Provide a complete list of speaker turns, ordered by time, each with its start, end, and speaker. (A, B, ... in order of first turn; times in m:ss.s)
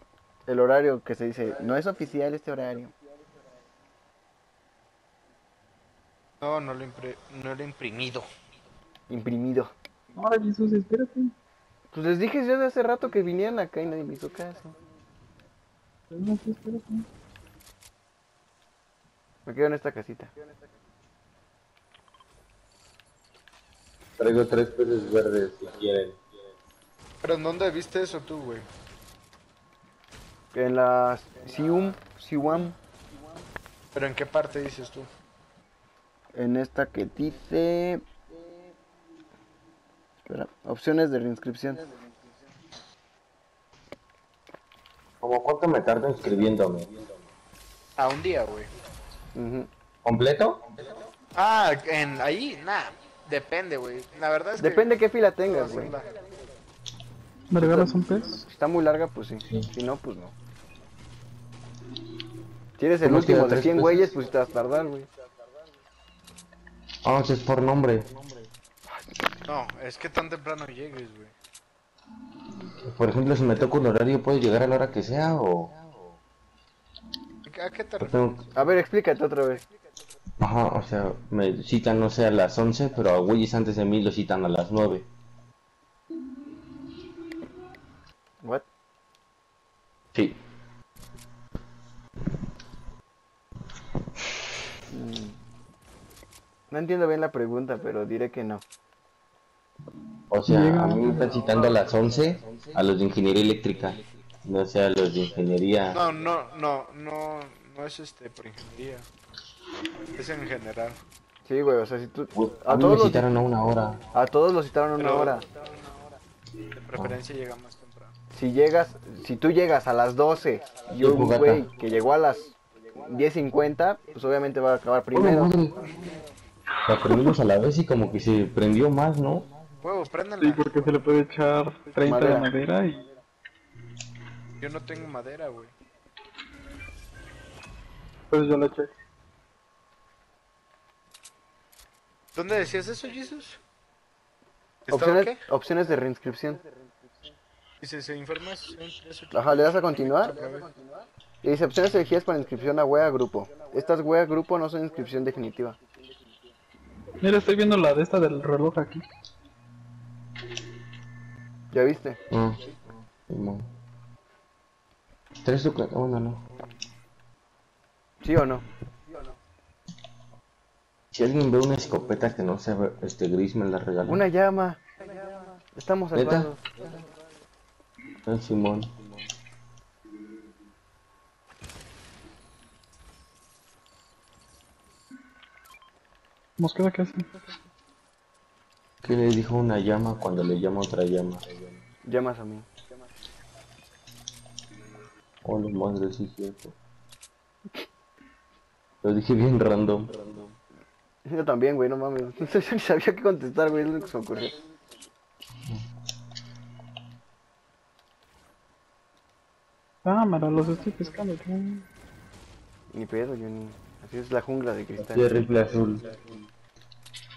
0:00.5-0:02.9 A
0:06.4-0:08.3 B
0:09.1-0:09.7 A
0:10.2-0:11.3 C
0:11.9-0:14.8 A
0:16.1-0:17.0 C
0:19.5-0:20.3 A
0:24.2-0:26.2 D
0:27.2-0:28.7 B
0:30.5-0:32.8 A
0:34.0-0:35.1 B
0:36.3-0:38.0 A
0:40.3-0:41.8 A
0:45.2-0:46.9 D
0:48.0-0:48.7 B
0:49.4-0:49.7 A
0:50.0-0:50.6 D
0:51.4-0:56.1 B
0:54.6-0:56.0 A
0:57.5-0:58.4 C
0:57.6-1:00.3 A
1:02.8-1:05.1 A
1:03.0-1:04.1 D
1:07.0-1:08.1 D
1:09.5-1:11.3 B
1:12.8-1:15.8 D
1:17.5-1:18.3 B
1:18.0-1:18.4 D
1:18.6-1:19.6 A
1:20.4-1:25.1 D
1:30.1-1:30.4 D
1:34.9-1:35.4 A
1:36.7-1:38.6 A
1:40.3-1:46.0 D
1:40.5-1:41.4 C
1:45.9-1:49.1 B
1:50.1-1:51.0 B
1:51.5-1:53.3 A
1:52.3-1:54.0 D
1:54.1-1:55.4 A
1:55.0-1:55.4 B
1:56.8-1:58.2 B
1:58.3-2:05.5 A
2:01.0-2:01.6 D
2:05.1-2:05.8 D
2:06.9-2:09.5 D
2:09.8-2:10.7 B
2:10.4-2:13.1 C
2:12.0-2:12.5 A
2:14.6-2:15.7 B
2:18.3-2:18.9 C
2:22.4-2:23.6 B
2:24.9-2:25.4 B
2:24.9-2:26.6 A
2:27.8-2:30.7 B
2:29.3-2:30.4 A
2:31.4-2:35.8 A
2:37.2-2:39.1 C
2:41.7-2:42.2 A
2:42.3-2:42.7 D
2:43.3-2:43.7 D
2:45.4-2:46.4 D
2:48.2-2:48.6 A
2:51.1-2:54.2 D
2:54.0-2:54.8 A
2:55.8-2:56.6 A
2:56.1-2:56.5 D
2:58.2-2:58.9 D
3:06.6-3:07.3 C
3:09.0-3:11.5 D
3:12.0-3:12.7 A
3:15.4-3:16.8 D
3:19.0-3:20.1 D
3:21.3-3:24.6 A
3:30.0-3:31.9 C
3:32.9-3:35.3 A
3:35.0-3:36.1 D